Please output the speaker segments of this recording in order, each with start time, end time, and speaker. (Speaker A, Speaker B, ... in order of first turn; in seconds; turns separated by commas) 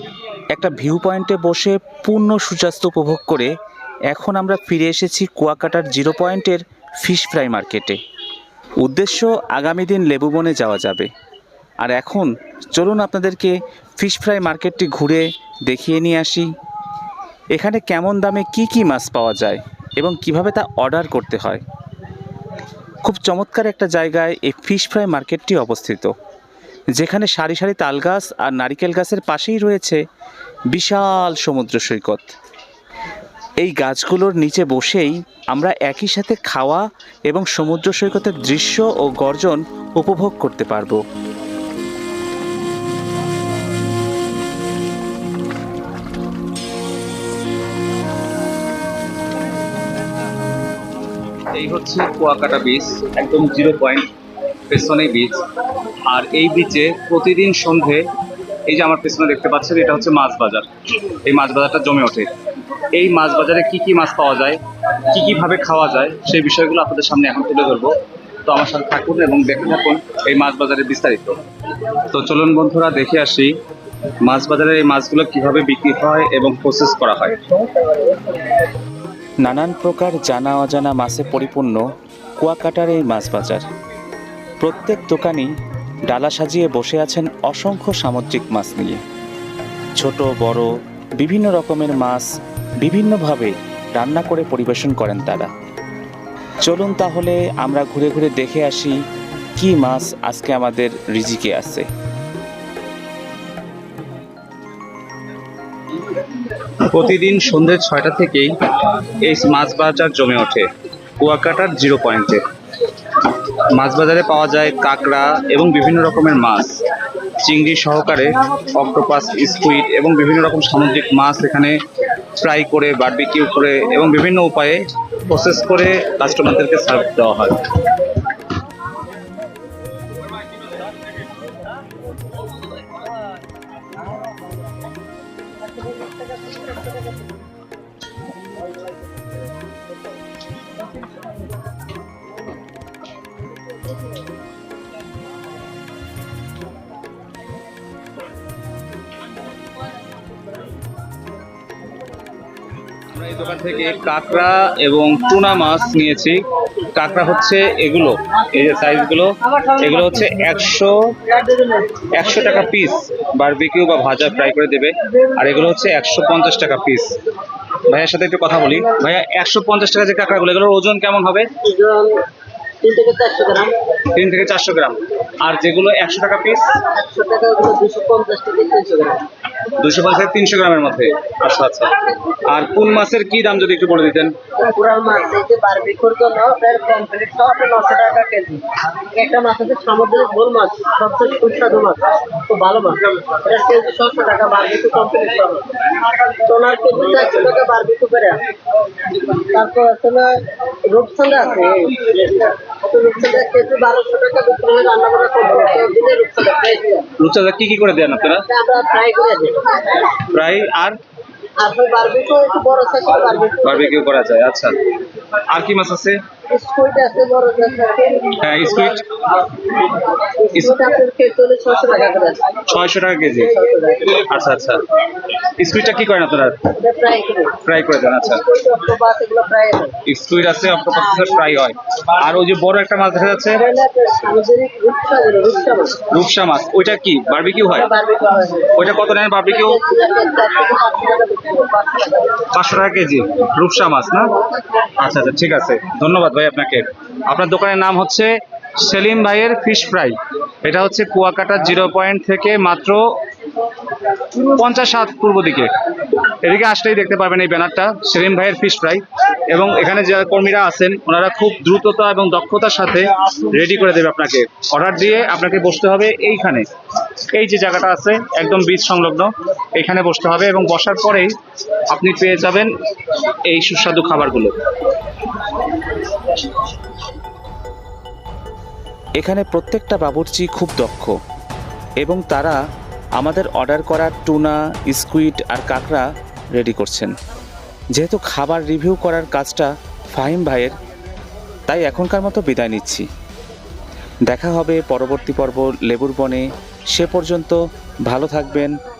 Speaker A: 0.5-3.5, Speaker A: 4.1-8.0, Speaker A: 8.8-11.1, Speaker A: 11.8-16.5, Speaker A: 17.5-21.6, Speaker A: 23.0-26.1, Speaker A: 27.0-30.0, Speaker A: 30.7-32.3, Speaker A: 33.6-41.0, Speaker B: 51.5-54.1, Speaker B: 54.7-55.4, Speaker B: 56.1-58.1, Speaker B: 58.6-62.3, Speaker B: 62.9-71.4, Speaker B: 72.1-73.6, Speaker B: 74.2-77.3, Speaker C: 77.4-78.4, Speaker A: 79.4-81.8, Speaker A: 82.4-83.7, Speaker A: 84.6-85.5, Speaker A: 86.1-89.0, Speaker A: 90.0-92.2, Speaker A: 92.8-95.5, Speaker A: 96.6-99.0, Speaker A: 99.5-101.9, Speaker B: 106.8-108.5, Speaker B: 109.2-112.4, Speaker B: 113.7-116.8, Speaker B: 117.4-121.8, Speaker B: 122.4-127.6, Speaker B: 153.1-161.3, Speaker B: 162.1-167.2, Speaker B: 167.9-171.5, Speaker C: 171.6-172.2, Speaker C: 172.8-173.7, Speaker B: 174.1-176.8, Speaker C: 176.9-179.2, Speaker B: 179.8-181.9, Speaker B: 182.4-184.3, Speaker C: 184.6-195.7, Speaker C: 196.3-198.4, Speaker C: 199.3-207.1, Speaker B: 207.2-208.5, Speaker C: 208.5-210.2, Speaker B: 210.3-211.0, Speaker C: 211.6-214.0, Speaker B: 213.6-214.7, Speaker B: 215.5-216.2, Speaker C: 216.5-219.0, Speaker B: 218.4-219.0, Speaker C: 219.9-222.5, Speaker B: 222.7-223.5, Speaker C: 223.3-224.2, Speaker B: 224.1-224.8, Speaker B: 225.6-226.7, Speaker C: 226.7-227.6, Speaker B: 227.6-228.4, Speaker C: 228.2-229.9, Speaker B: 230.1-233.6, Speaker C: 233.5-236.0, Speaker B: 236.1-237.9, Speaker C: 237.7-238.8, Speaker B: 238.8-239.8, Speaker C: 239.5-242.5, Speaker B: 242.5-244.3, Speaker B: 245.0-253.2, Speaker B: 254.4-255.7, Speaker B: 256.4-266.7, Speaker B: 267.3-271.3, Speaker B: 271.9-272.7, Speaker B: 273.4-274.6, Speaker A: 279.2-281.1, Speaker A: 282.0-282.6, Speaker A: 283.2-287.1, Speaker A: 287.9-290.8, Speaker A: 291.7-293.0, Speaker A: 294.3-298.7